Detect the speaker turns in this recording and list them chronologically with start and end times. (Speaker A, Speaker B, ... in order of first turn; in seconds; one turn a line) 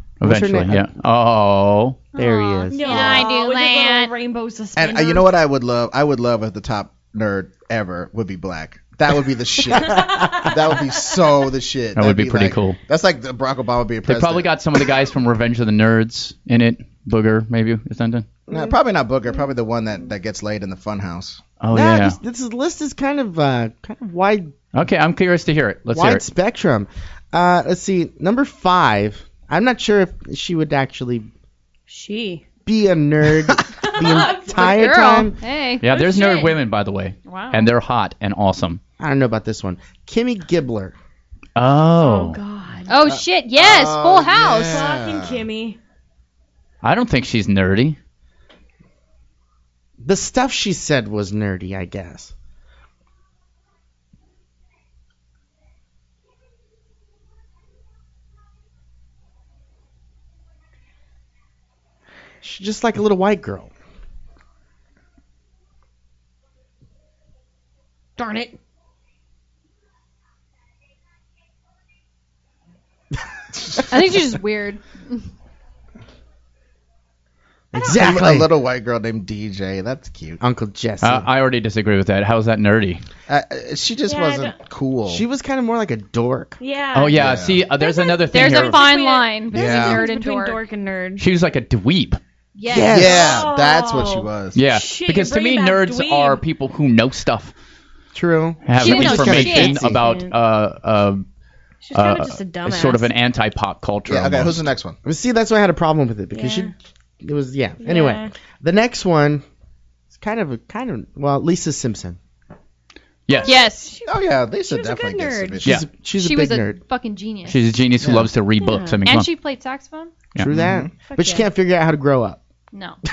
Speaker A: 0.2-2.0
Speaker B: 0.2-0.9
Speaker C: 2.1-4.1
Speaker B: 2.2-3.2
Speaker D: 2.7-5.3
Speaker E: 4.8-14.5
Speaker D: 10.0-10.5
Speaker A: 11.9-12.8
Speaker A: 14.1-18.3
Speaker E: 18.5-21.4
Speaker A: 21.6-22.2
Speaker B: 21.7-24.5
Speaker A: 24.7-26.2
Speaker B: 25.9-31.3
Speaker D: 31.9-32.4
Speaker B: 32.7-35.4
Speaker D: 33.9-34.8
Speaker C: 34.3-36.6
Speaker A: 35.8-38.8
Speaker C: 37.3-37.7
Speaker B: 39.0-41.0
Speaker A: 41.6-42.4
Speaker D: 42.0-43.1
Speaker C: 42.9-44.9
Speaker E: 43.1-45.4
Speaker D: 44.6-45.8
Speaker A: 46.8-48.0
Speaker B: 50.0-52.3
Speaker B: 62.4-63.7
Speaker D: 68.2-68.6
Speaker C: 73.9-75.2
Speaker B: 77.7-78.5
Speaker E: 77.9-80.4
Speaker B: 80.4-81.3
Speaker A: 81.0-83.0
Speaker E: 83.3-85.2
Speaker D: 84.1-84.5
Speaker B: 85.1-86.6
Speaker D: 86.6-87.2
Speaker A: 86.9-88.8
Speaker E: 87.2-87.7
Speaker D: 87.8-91.3
Speaker C: 88.0-90.6
Speaker E: 89.5-90.0
Speaker A: 91.2-92.2
Speaker C: 92.6-93.5
Speaker B: 92.7-93.3
Speaker D: 92.7-96.4
Speaker E: 92.9-94.6
Speaker A: 94.5-97.5
Speaker B: 98.1-100.0
Speaker A: 98.7-101.3
Speaker C: 98.8-99.8
Speaker D: 99.8-100.3
Speaker D: 101.8-103.1
Speaker A: 101.9-104.6
Speaker E: 104.1-105.0
Speaker B: 105.0-109.4
Speaker D: 106.3-106.7
Speaker D: 107.8-108.3
Speaker B: 110.1-112.2
Speaker A: 113.3-113.6
Speaker D: 113.3-115.6
Speaker C: 113.4-113.9
Speaker E: 114.0-115.8
Speaker B: 115.6-116.8
Speaker C: 116.2-117.7
Speaker A: 117.5-119.3
Speaker D: 118.6-119.0
Speaker C: 119.1-120.3
Speaker B: 120.4-122.4
Speaker E: 120.5-120.9
Speaker D: 121.1-121.5
Speaker C: 122.7-123.0